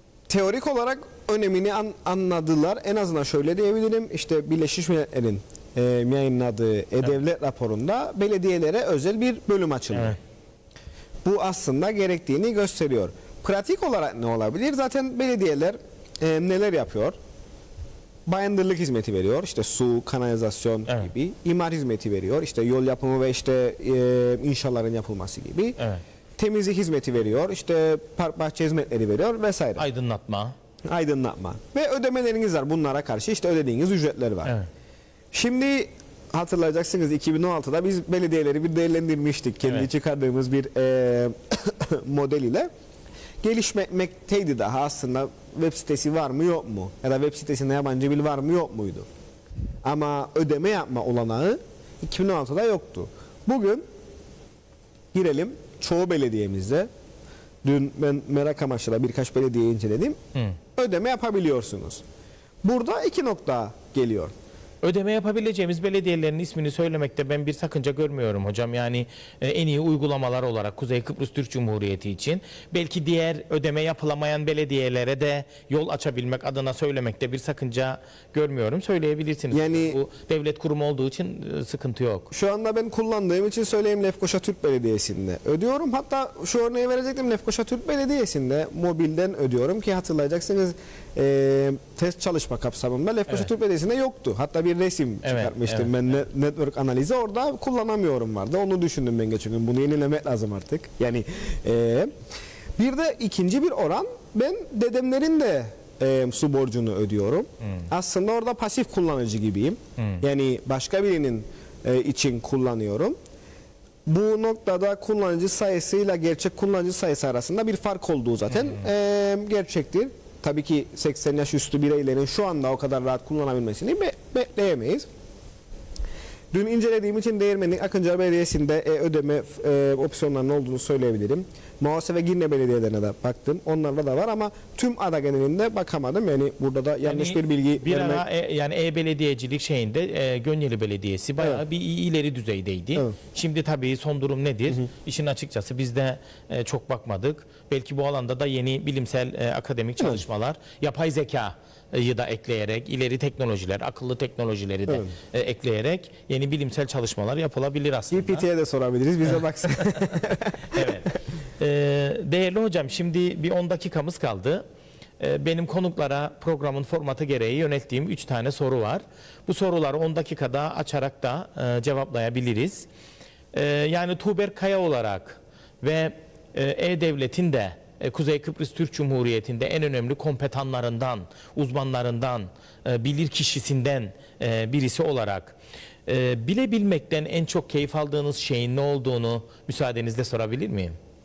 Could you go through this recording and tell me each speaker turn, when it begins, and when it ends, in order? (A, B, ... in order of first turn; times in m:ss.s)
0:00.3-0:10.2 A
0:09.9-0:10.2 B
0:11.2-0:17.2 A
0:18.3-0:25.8 A
0:26.4-0:29.9 A
0:29.8-0:30.6 B
0:30.9-0:34.5 A
0:35.3-0:42.7 A
0:43.4-0:49.1 A
0:49.8-0:53.8 A
0:55.1-0:56.9 A
0:57.6-1:00.2 A
1:00.8-1:02.0 A
1:02.6-1:04.3 A
1:04.8-1:22.3 B
1:19.5-1:20.0 A
1:22.3-1:42.1 A
1:35.2-1:36.0 B
1:42.8-1:53.2 A
1:50.0-1:50.2 B
1:54.1-2:05.1 A
2:06.5-2:18.2 A
2:17.0-2:38.4 B
2:34.9-2:35.1 A
2:38.1-2:41.1 A
2:39.8-2:44.6 B
2:45.2-2:52.9 B
2:53.5-3:11.0 B